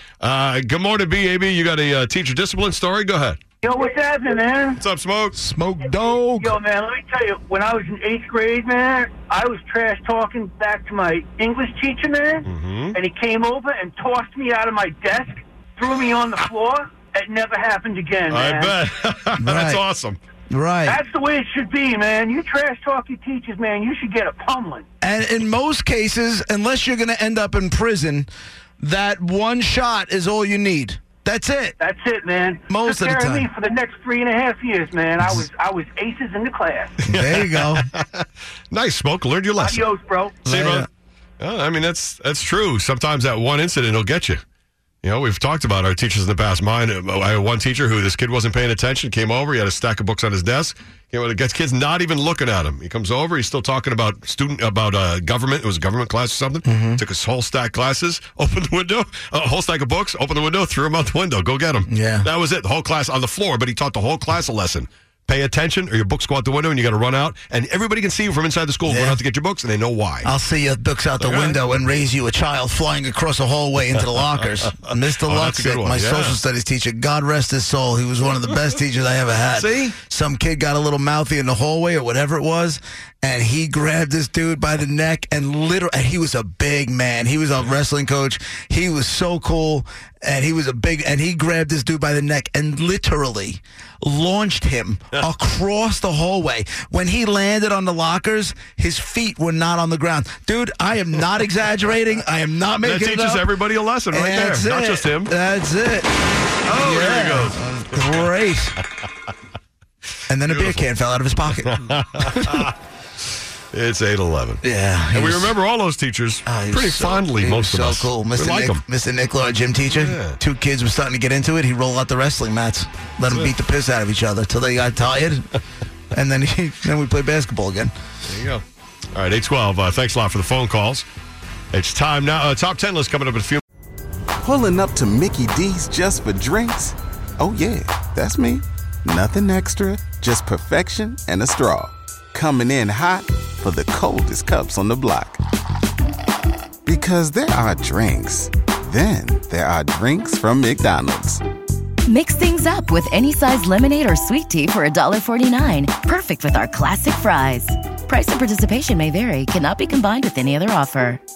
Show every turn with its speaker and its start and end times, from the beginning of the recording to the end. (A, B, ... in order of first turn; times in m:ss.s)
0:00.2-0:03.4 A
0:03.6-0:04.8 B
0:04.8-0:05.4 A
0:05.3-0:06.6 C
0:06.4-0:18.8 B
0:12.4-0:13.0 A
0:18.3-0:20.2 A
0:19.4-0:19.8 C
0:20.5-0:21.0 C
0:20.8-0:24.8 B
0:25.0-0:28.3 C
0:28.8-0:31.8 C
0:31.8-0:36.9 B
0:32.7-0:33.5 C
0:37.0-0:37.8 C
0:37.0-0:40.9 A
0:39.6-0:40.3 B
0:40.4-0:40.9 C
0:41.4-0:44.4 A
0:45.0-1:10.3 A
0:56.6-0:57.0 C
1:01.9-1:02.3 C
1:08.8-1:09.2 C
1:10.2-1:43.5 C
1:11.2-1:11.6 A
1:15.2-1:16.4 A
1:19.5-1:19.9 A
1:42.8-1:45.3 A
1:44.1-1:46.1 C
1:46.6-1:48.2 A
1:46.7-1:48.8 C
1:50.3-1:52.7 C
1:50.4-1:50.9 A
1:51.6-1:52.7 A
1:53.7-1:58.8 A
1:54.6-1:55.6 C
1:56.4-2:05.5 C
1:59.9-2:00.4 A
2:06.1-2:07.9 C
2:08.2-2:11.0 A
2:11.7-2:13.6 A
2:14.4-2:25.4 D
2:26.8-2:31.4 D
2:32.0-2:41.2 E